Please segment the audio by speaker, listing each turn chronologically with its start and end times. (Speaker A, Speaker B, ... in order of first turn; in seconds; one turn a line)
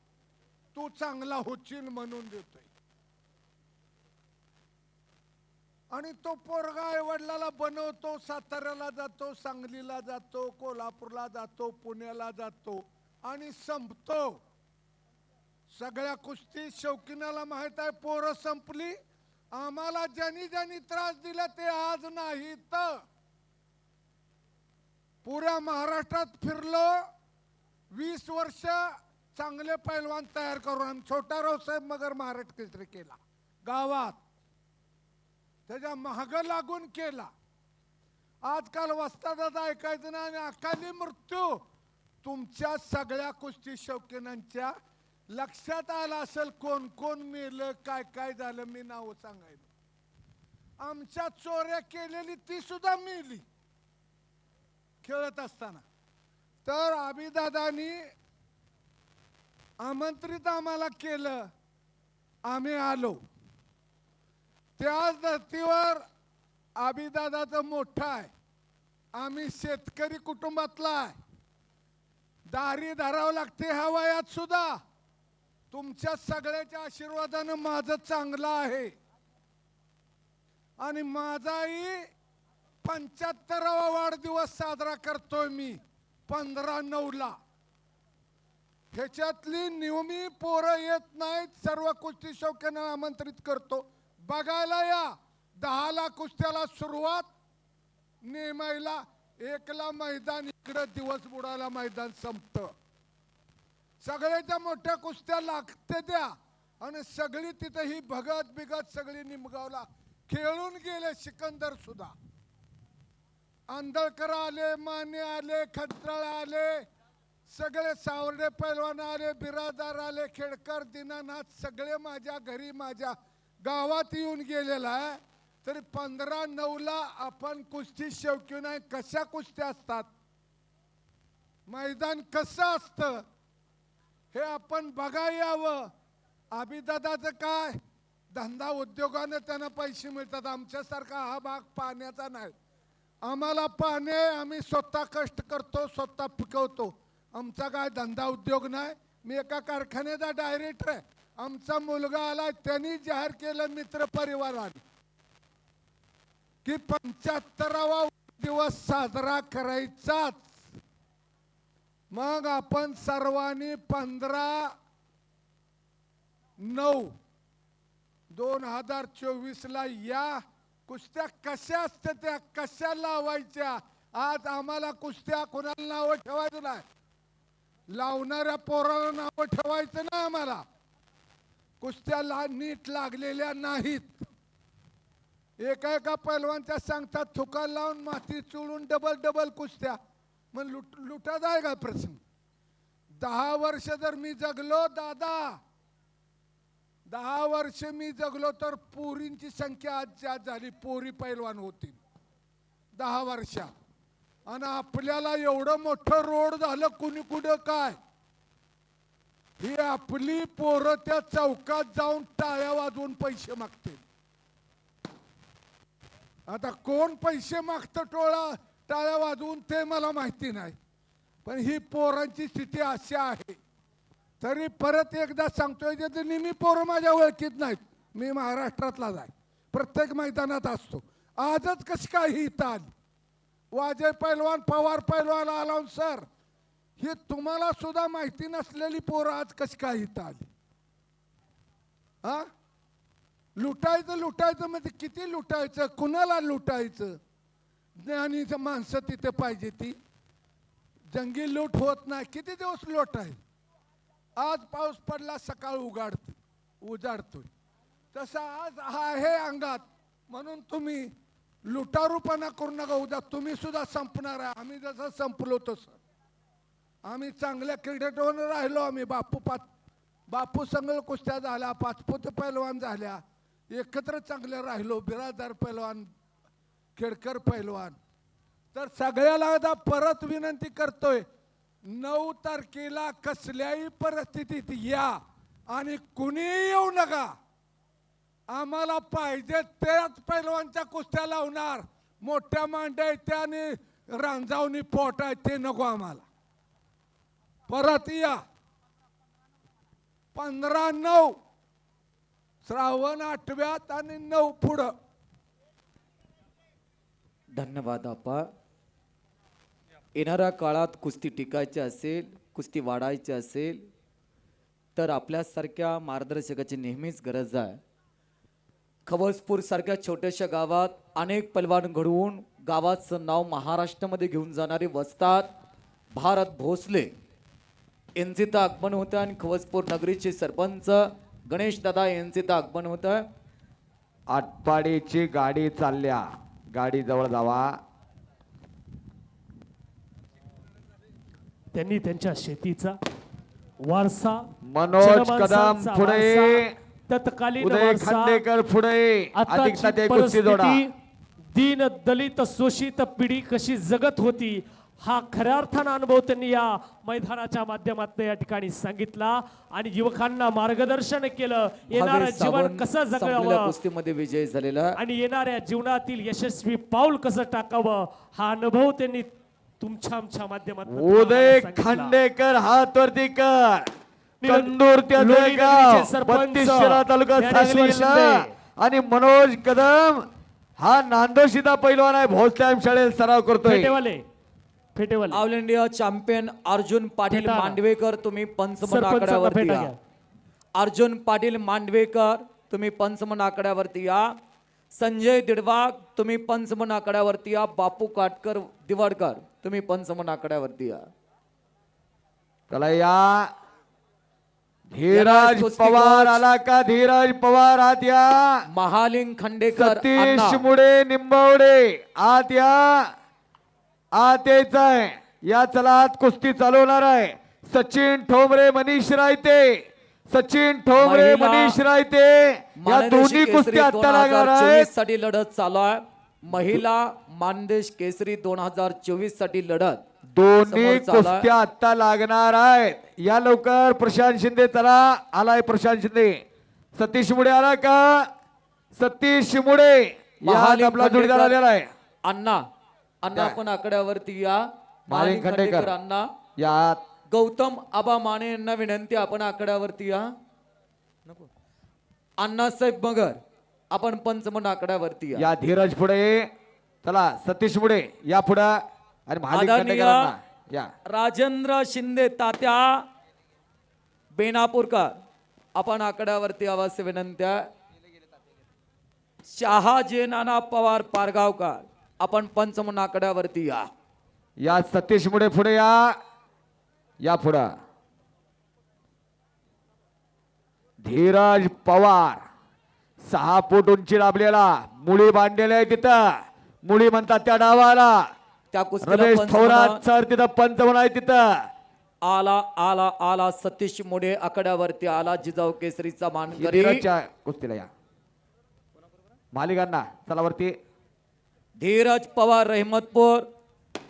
Speaker A: 0.8-2.7
Speaker A: 5.9-14.4
Speaker A: 15.7-19.0
Speaker A: 19.5-23.0
Speaker A: 25.2-27.0
Speaker A: 27.9-34.2
Speaker A: 35.7-37.3
Speaker A: 38.4-41.6
Speaker A: 42.2-44.7
Speaker A: 45.3-49.7
Speaker A: 50.8-53.4
Speaker A: 55.0-55.8
Speaker A: 56.6-58.0
Speaker A: 59.8-61.5
Speaker A: 62.5-63.2
Speaker A: 64.8-66.0
Speaker A: 66.8-68.3
Speaker A: 69.2-71.2
Speaker A: 72.5-74.8
Speaker A: 75.7-78.9
Speaker A: 80.8-82.1
Speaker A: 82.8-87.3
Speaker A: 88.9-97.3
Speaker A: 98.2-102.7
Speaker A: 104.0-112.1
Speaker A: 113.7-116.8
Speaker A: 117.5-130.1
Speaker A: 131.7-133.2
Speaker A: 134.3-135.9
Speaker A: 136.5-137.8
Speaker A: 138.3-142.6
Speaker A: 143.2-154.8
Speaker A: 156.7-160.6
Speaker A: 162.1-164.7
Speaker A: 166.6-167.1
Speaker A: 168.3-176.8
Speaker A: 177.9-180.6
Speaker A: 181.8-184.2
Speaker A: 185.6-190.0
Speaker A: 190.5-192.2
Speaker A: 193.2-195.6
Speaker A: 197.1-202.0
Speaker A: 202.9-203.7
Speaker A: 204.5-208.0
Speaker A: 209.6-214.0
Speaker A: 216.5-220.8
Speaker A: 221.4-223.6
Speaker A: 224.4-232.9
Speaker A: 233.7-236.2
Speaker A: 237.0-240.5
Speaker A: 243.6-247.2
Speaker A: 248.0-250.0
Speaker A: 251.1-253.4
Speaker A: 254.4-257.5
Speaker A: 258.1-261.1
Speaker A: 261.7-266.0
Speaker A: 267.1-269.6
Speaker A: 270.3-276.1
Speaker A: 277.0-278.0
Speaker A: 278.7-281.2
Speaker A: 281.9-287.3
Speaker A: 288.5-296.2
Speaker A: 297.7-298.4
Speaker A: 300.3-301.4
Speaker A: 302.6-304.9
Speaker B: 307.6-308.4
Speaker B: 310.2-313.8
Speaker B: 315.0-317.8
Speaker B: 319.1-325.5
Speaker B: 326.1-327.1
Speaker B: 328.2-333.2
Speaker C: 334.3-337.8
Speaker D: 341.7-343.0
Speaker D: 343.8-344.5
Speaker C: 344.7-346.7
Speaker D: 345.0-348.4
Speaker C: 347.6-350.8
Speaker D: 349.4-350.9
Speaker D: 351.6-363.7
Speaker B: 361.9-364.9
Speaker D: 364.9-369.3
Speaker D: 369.8-372.2
Speaker C: 370.9-373.9
Speaker D: 374.4-378.5
Speaker C: 374.4-380.2
Speaker C: 380.8-383.9
Speaker D: 383.6-384.2
Speaker D: 384.9-385.4
Speaker B: 385.3-389.9
Speaker D: 387.3-387.8
Speaker D: 388.8-390.0
Speaker B: 390.8-394.3
Speaker B: 394.9-401.0
Speaker C: 402.7-403.5
Speaker C: 404.9-408.5
Speaker B: 405.1-406.4
Speaker B: 408.7-410.6
Speaker C: 409.7-413.1
Speaker C: 414.2-424.9
Speaker B: 421.0-421.8
Speaker B: 422.8-430.0
Speaker C: 430.4-436.4
Speaker B: 430.7-431.5
Speaker C: 437.0-438.3
Speaker C: 439.0-441.9
Speaker B: 440.4-441.6
Speaker B: 442.2-442.6
Speaker B: 443.2-446.2
Speaker C: 445.1-445.9
Speaker C: 446.6-447.0
Speaker B: 447.3-450.3
Speaker B: 452.4-453.4
Speaker B: 453.9-455.5
Speaker C: 455.4-456.5
Speaker C: 457.0-458.7
Speaker C: 459.3-460.9
Speaker B: 459.5-460.3
Speaker B: 461.1-463.0
Speaker B: 464.4-465.1
Speaker B: 465.8-467.6
Speaker B: 469.4-473.9
Speaker C: 474.6-476.1
Speaker C: 477.2-477.7
Speaker C: 481.0-482.4
Speaker C: 483.3-486.2
Speaker C: 486.9-488.2
Speaker B: 488.7-490.0
Speaker C: 489.0-491.6
Speaker B: 492.2-497.0
Speaker C: 496.6-497.9
Speaker C: 499.5-500.7
Speaker B: 501.8-503.4